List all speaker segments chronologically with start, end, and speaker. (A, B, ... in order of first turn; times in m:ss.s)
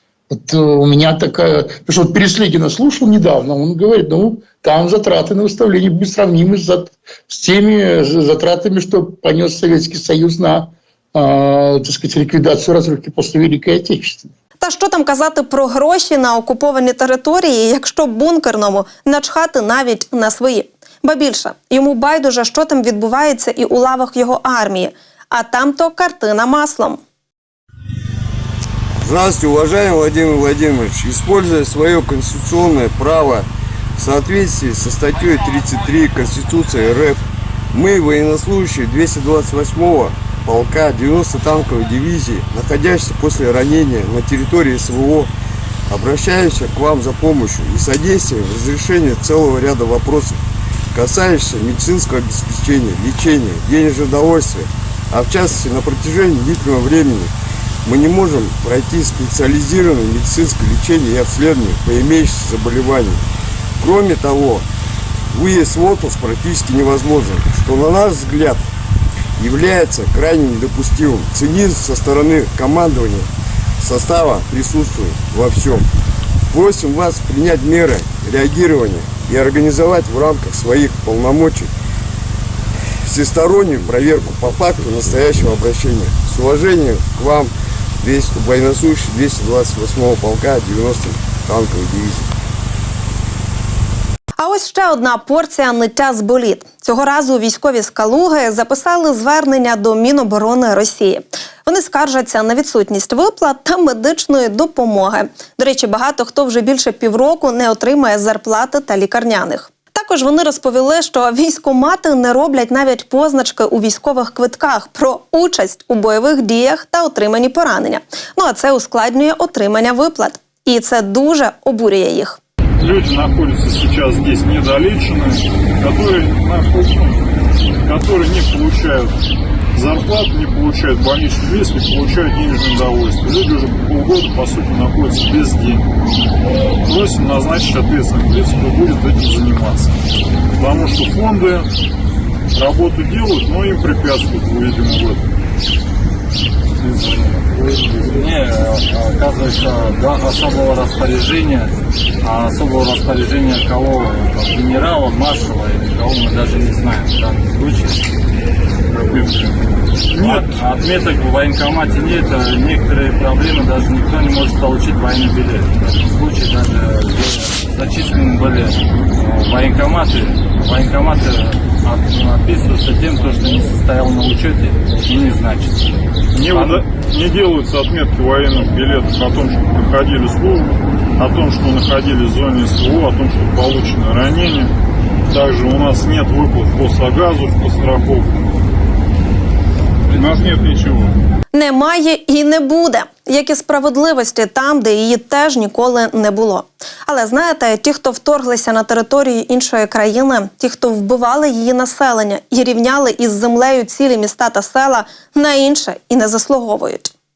0:00.3-0:14.3 A
0:14.6-0:27.0 B
0:29.0-0:37.2 C
0:37.7-0:45.3 C
0:45.9-0:50.4 C
0:50.9-0:57.3 C
0:57.8-1:03.2 C
1:03.8-1:04.7 C
1:05.3-1:08.7 C
1:09.4-1:15.9 C
1:16.5-1:21.7 C
1:23.0-1:32.3 C
1:34.4-2:02.4 B
2:02.8-2:07.2 D
2:07.8-2:09.1 D
2:09.8-2:15.9 D
2:16.9-2:20.0 D
2:20.6-2:21.7 D
2:22.5-2:25.2 D
2:26.8-2:38.1 E
2:38.9-2:39.5 E
2:40.1-2:40.5 D
2:40.2-2:57.0 E
2:56.3-3:04.7 D
3:05.3-3:08.3 D
3:10.2-3:11.1 D
3:11.5-3:27.1 B